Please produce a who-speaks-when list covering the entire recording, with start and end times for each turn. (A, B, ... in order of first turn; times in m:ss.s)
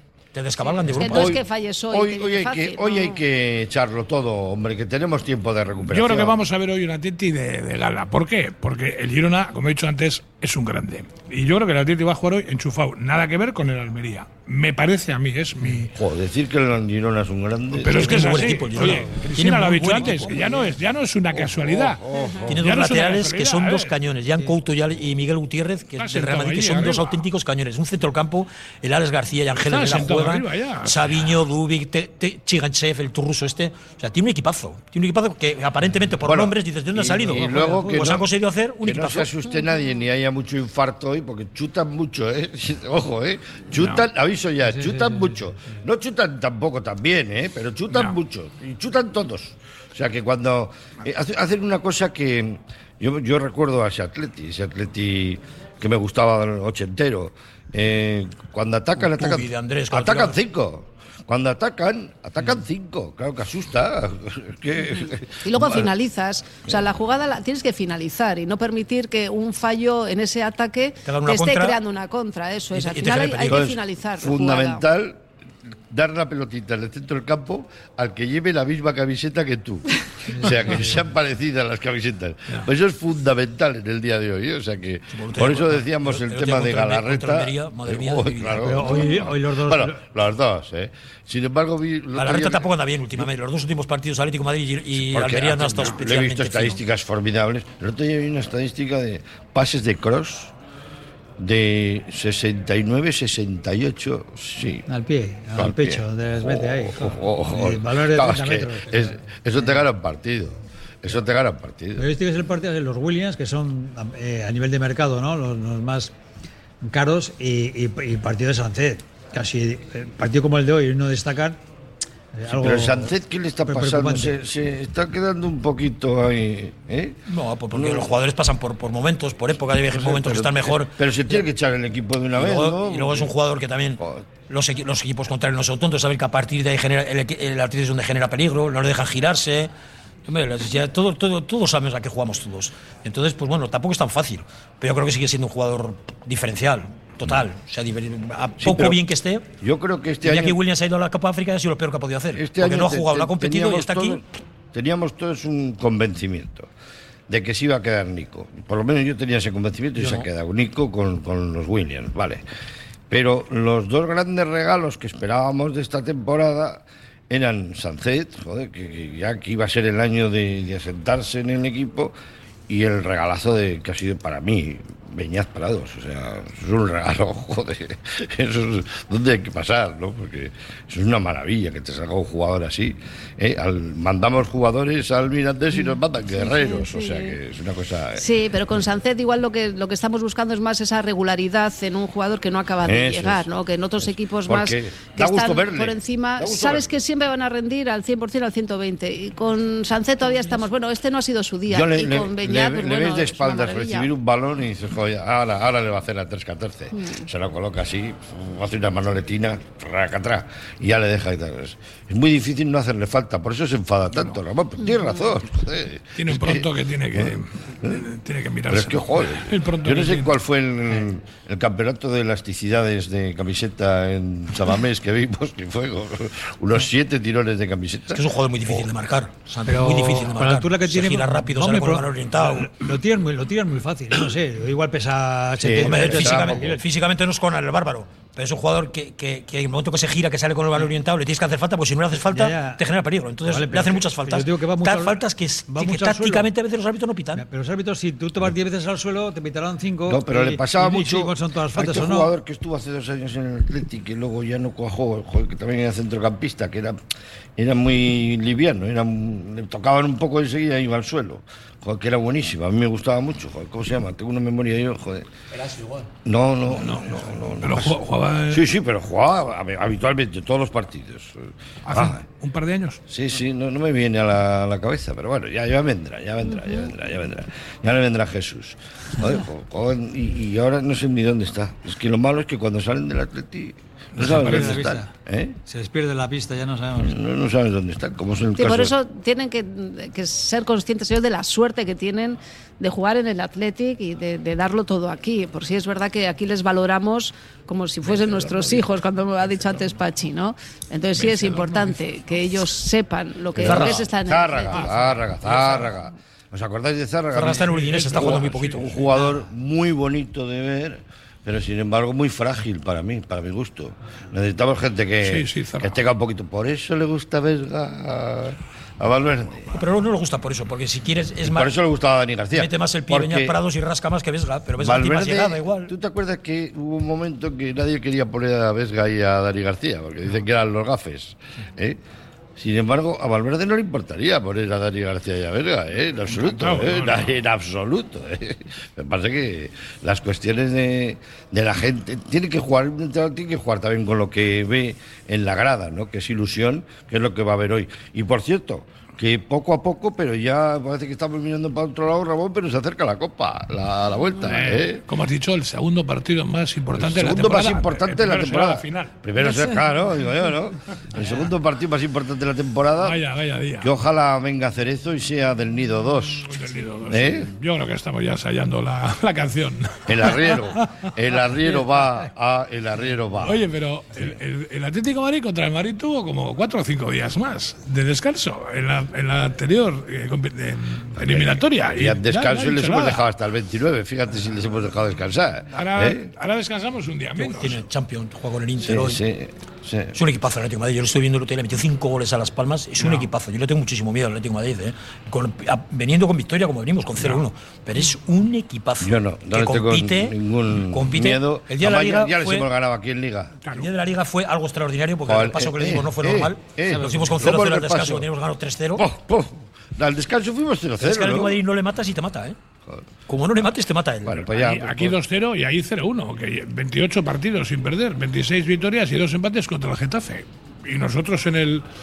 0:00.3-0:01.4 A
0:00.6-0:03.2 B
0:01.1-0:06.4 C
0:05.9-0:15.9 D
0:15.9-0:18.4 C
0:17.8-0:22.0 D
0:17.9-0:20.4 A
0:18.8-0:19.2 E
0:21.3-0:22.6 C
0:22.1-0:22.5 B
0:22.5-0:39.3 A
0:22.6-0:23.9 D
0:26.0-0:27.2 D
0:29.5-0:31.4 D
0:36.2-0:38.3 C
0:37.3-0:38.0 E
0:38.8-1:05.9 C
0:43.8-0:44.0 D
0:44.6-0:45.7 E
0:59.0-1:00.4 A
1:05.4-1:14.8 B
1:11.0-1:11.8 A
1:12.7-1:13.7 A
1:13.5-1:15.2 C
1:15.9-1:33.3 C
1:20.3-1:21.0 E
1:25.1-1:29.0 A
1:28.6-1:30.0 E
1:32.2-1:36.8 A
1:34.9-1:40.5 C
1:41.4-1:44.8 C
1:44.9-1:49.8 E
1:45.5-1:52.0 C
1:52.0-1:56.1 E
1:56.8-2:01.6 E
2:02.3-2:03.1 E
2:02.5-2:07.2 C
2:03.6-2:04.4 E
2:07.3-2:11.4 A
2:07.7-2:08.1 C
2:09.7-2:13.3 C
2:12.4-2:19.7 A
2:14.0-2:14.2 C
2:20.2-2:29.4 A
2:28.6-2:29.0 C
2:29.6-2:30.6 C
2:30.2-2:34.2 A
2:32.3-2:36.7 C
2:37.3-2:42.4 C
2:40.0-2:40.3 A
2:43.1-2:52.1 C
2:52.7-3:08.2 C
3:05.7-3:07.4 B
3:08.2-3:24.1 B
3:12.8-3:17.0 C
3:21.7-3:38.1 C
3:27.0-3:27.2 B
3:36.2-3:40.3 D
3:38.7-3:48.9 C
3:48.1-3:52.7 A
3:49.7-3:56.8 E
3:55.6-3:56.8 C
3:55.8-4:07.4 A
4:02.3-4:02.8 E
4:03.5-4:06.5 E
4:07.3-4:12.3 E
4:10.1-4:17.0 C
4:17.6-4:25.3 C
4:25.5-4:26.1 A
4:26.2-4:32.2 C
4:26.8-4:28.6 D
4:31.9-4:33.0 D
4:33.1-4:45.6 C
4:44.2-4:44.8 D
4:44.2-4:45.1 E
4:45.7-4:47.2 E
4:47.0-4:48.9 C
4:48.6-5:04.9 B
4:58.0-5:00.0 D
5:01.2-5:02.0 D
5:03.6-5:19.8 C
5:03.6-5:04.1 A
5:04.7-5:06.0 D
5:07.3-5:08.9 A
5:07.6-5:09.1 D
5:15.2-5:16.0 D
5:19.7-5:21.7 A
5:21.4-5:23.6 C
5:22.5-5:25.9 A
5:24.8-5:32.0 C
5:32.6-5:55.0 C
5:36.3-5:37.3 D
5:54.4-5:59.1 D
5:56.9-6:03.2 C
6:03.0-6:03.9 D
6:03.8-6:06.5 C
6:06.4-6:11.1 D
6:07.1-6:07.5 C
6:10.1-6:13.6 C
6:13.4-6:23.2 D
6:21.2-6:26.3 C
6:25.7-6:27.8 D
6:27.4-6:29.2 A
6:28.8-6:30.2 C
6:30.1-6:42.7 A
6:33.0-6:33.3 D
6:37.2-6:37.4 D
6:39.0-6:43.6 C
6:43.7-6:49.0 A
6:45.2-6:48.2 C
6:46.9-6:47.4 E
6:49.0-6:51.6 C
6:51.0-6:52.6 A
6:53.3-6:54.5 A
6:54.2-6:55.2 C
6:54.5-7:01.8 D